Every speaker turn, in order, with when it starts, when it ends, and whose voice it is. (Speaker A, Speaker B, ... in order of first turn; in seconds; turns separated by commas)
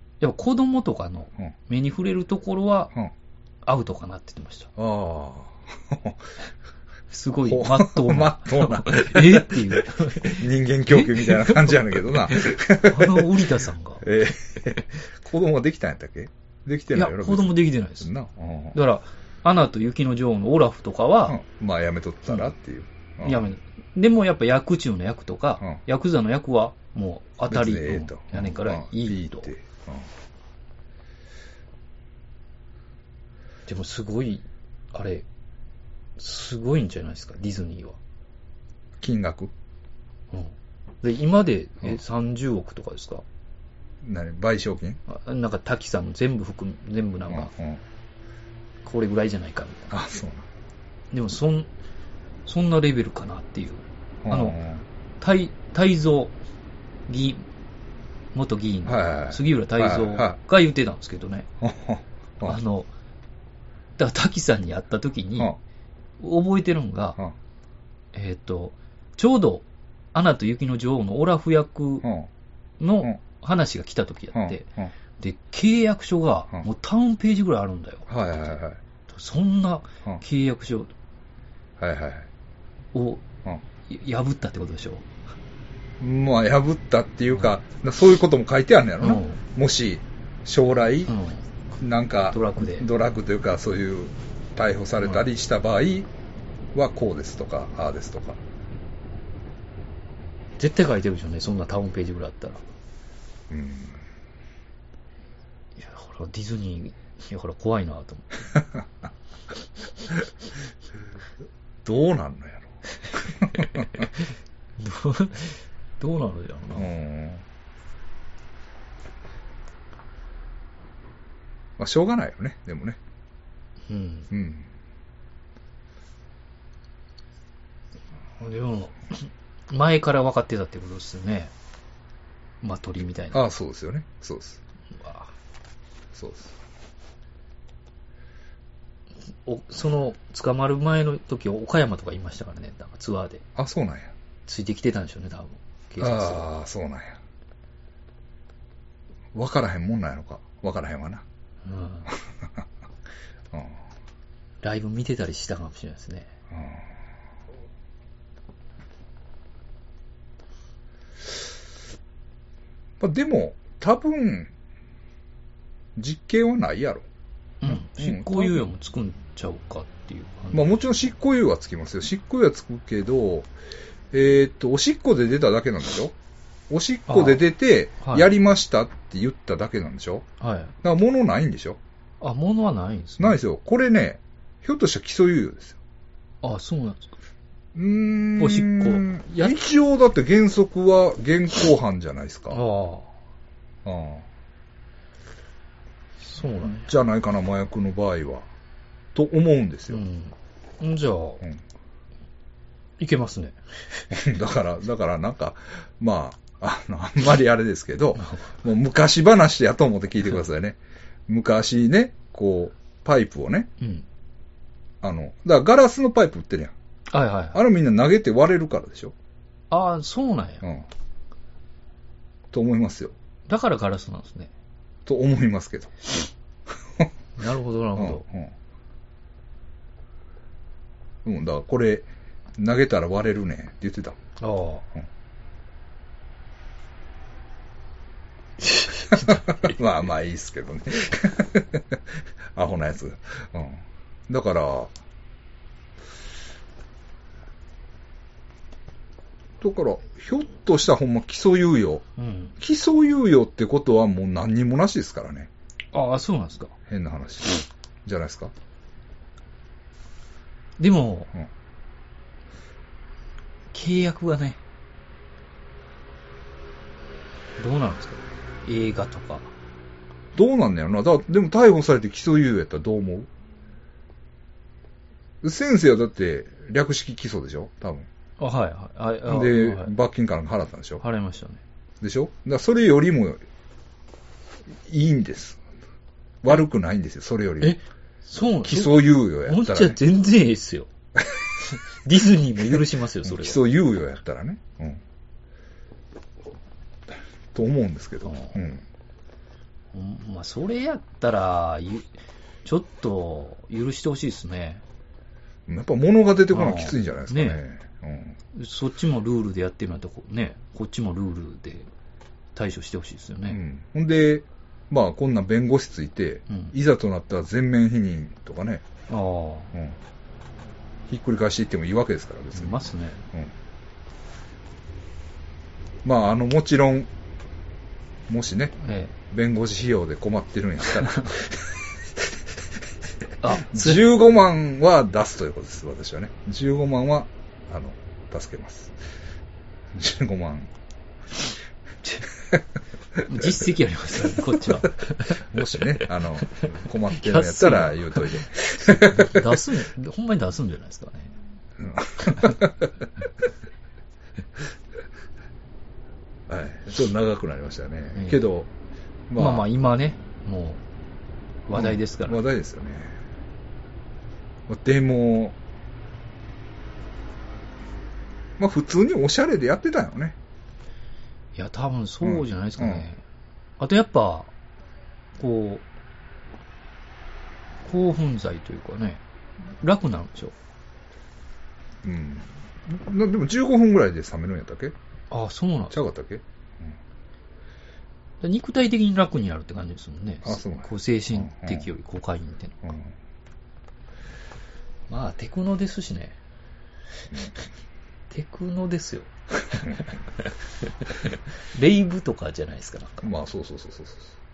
Speaker A: 0.2-2.9, Speaker A: 3.6-4.7, Speaker B: 4.8-6.2, Speaker A: 7.1-14.0, Speaker B: 7.4-13.4, Speaker B: 14.0-18.8, Speaker A: 16.9-18.1, Speaker A: 18.7-21.4, Speaker B: 21.3-23.5, Speaker A: 23.2-29.5, Speaker B: 27.5-30.1, Speaker A: 33.7-35.2, Speaker A: 36.2-38.0, Speaker B: 39.0-39.5, Speaker A: 40.3-43.2, Speaker B: 44.0-45.0, Speaker A: 45.1-47.5, Speaker B: 47.3-47.8, Speaker A: 48.8-49.9, Speaker B: 49.9-50.5, Speaker A: 51.1-51.7, Speaker A: 52.5-54.6, Speaker B: 54.2-54.8, Speaker A: 55.2-56.3, Speaker A: 57.1-57.5, Speaker A: 58.3-61.5, Speaker B: 58.9-60.4, Speaker B: 61.6-62.6, Speaker A: 62.4-62.9, Speaker A: 64.0-65.5, Speaker A: 66.2-67.2, Speaker A: 68.1-72.0, Speaker B: 72.0-72.3, Speaker A: 72.8-74.6, Speaker B: 74.3-74.9, Speaker A: 75.2-78.1, Speaker B: 78.1-78.8, Speaker A: 79.1-80.9, Speaker B: 81.8-82.3, Speaker A: 82.9-83.2, Speaker A: 83.9-85.0, Speaker B: 86.0-91.1, Speaker A: 89.0-89.4, Speaker A: 91.1-91.4, Speaker B: 91.8-96.1, Speaker A: 92.3-92.9, Speaker B: 96.7-98.4, Speaker A: 100.6-102.6, Speaker B: 103.5-104.0, Speaker A: 105.8-108.5, Speaker B: 111.8-114.1, Speaker A: 114.8-116.9, Speaker B: 116.7-117.4, Speaker B: 121.8-123.0, Speaker A: 123.9-124.3, Speaker B: 124.3-124.7, Speaker A: 128.4-131.5, Speaker A: 132.6-133.4, Speaker B: 133.3-134.6, Speaker A: 134.9-135.3, Speaker B: 136.1-136.5, Speaker A: 139.4-143.4, Speaker B: 143.6-144.1, Speaker A: 144.4-146.4, Speaker B: 146.0-147.2, Speaker B: 149.3-151.2, Speaker A: 151.6-152.1, Speaker B: 153.5-153.8, Speaker A: 154.6-156.3, Speaker B: 156.5-156.8, Speaker B: 163.0-164.5, Speaker B: 165.9-167.0, Speaker A: 167.6-170.6, Speaker B: 167.7-168.6, Speaker B: 170.5-173.5, Speaker B: 174.1-176.1, Speaker B: 176.7-180.2, Speaker A: 177.1-177.4, Speaker A: 178.0-178.3, Speaker A: 180.4-180.7, Speaker B: 180.8-181.8, Speaker A: 182.2-183.4, Speaker B: 183.2-185.8, Speaker A: 186.4-187.1, Speaker B: 187.7-192.6, Speaker A: 188.4-189.6, Speaker A: 192.5-193.1, Speaker B: 193.8-194.3, Speaker A: 196.2-196.9, Speaker B: 196.6-198.5, Speaker B: 199.1-200.0, Speaker A: 199.9-201.4, Speaker A: 203.0-204.0, Speaker B: 204.1-213.7, Speaker A: 208.2-208.4, Speaker A: 213.8-214.1, Speaker B: 215.0-216.7, Speaker A: 217.1-217.6, Speaker B: 217.5-219.1, Speaker A: 219.7-220.6, Speaker B: 220.6-220.9, Speaker B: 222.5-223.1, Speaker A: 223.5-224.5, Speaker B: 225.1-225.9, Speaker A: 227.4-228.2, Speaker B: 227.9-228.5, Speaker B: 231.2-234.2, Speaker A: 234.4-234.8, Speaker A: 238.6-239.7, Speaker B: 239.1-242.0, Speaker B: 242.5-244.9, Speaker B: 249.6-252.0, Speaker A: 252.2-252.5, Speaker B: 252.6-255.5, Speaker A: 255.9-256.7, Speaker B: 256.9-258.5, Speaker A: 260.8-261.3, Speaker A: 263.7-264.6, Speaker A: 267.6-269.5, Speaker B: 270.3-273.3, Speaker B: 275.4-278.1, Speaker A: 278.4-279.9, Speaker B: 279.3-281.0, Speaker A: 281.0-281.6, Speaker B: 282.0-283.4, Speaker B: 284.8-285.6, Speaker B: 286.4-287.8, Speaker A: 287.6-290.9, Speaker B: 288.6-290.0, Speaker A: 291.6-293.6, Speaker B: 293.2-295.0, Speaker B: 297.5-298.8, Speaker A: 298.2-298.7, Speaker A: 299.9-302.1, Speaker A: 302.6-304.8, Speaker B: 305.7-308.4, Speaker A: 306.5-307.6, Speaker A: 308.5-311.9, Speaker A: 312.5-313.6, Speaker B: 313.5-318.9, Speaker A: 316.5-316.7, Speaker A: 319.1-319.7, Speaker B: 321.1-323.5, Speaker A: 322.5-323.2, Speaker B: 326.0-327.1, Speaker B: 328.3-328.8, Speaker A: 328.8-329.1, Speaker B: 329.3-332.4, Speaker A: 331.0-331.3, Speaker A: 333.4-334.1, Speaker B: 333.5-338.9, Speaker B: 339.9-340.7, Speaker B: 343.2-343.5, Speaker A: 343.2-345.4, Speaker B: 344.7-349.6, Speaker A: 346.4-351.3, Speaker B: 351.8-353.1, Speaker B: 356.5-358.7, Speaker A: 358.1-358.4, Speaker B: 359.3-359.6, Speaker A: 359.4-360.8, Speaker A: 361.7-362.4, Speaker B: 361.7-363.1, Speaker B: 364.7-365.6, Speaker B: 368.6-370.4, Speaker A: 371.5-373.2, Speaker B: 372.2-373.1, Speaker A: 373.8-374.5, Speaker A: 375.4-375.8, Speaker A: 377.8-380.5, Speaker B: 382.0-384.9, Speaker A: 385.3-385.9, Speaker B: 385.9-387.0, Speaker A: 388.4-392.9, Speaker B: 390.4-391.9, Speaker B: 392.8-393.1, Speaker A: 395.1-396.4, Speaker A: 398.3-400.1, Speaker B: 399.7-400.0, Speaker A: 401.1-403.3, Speaker B: 403.2-404.3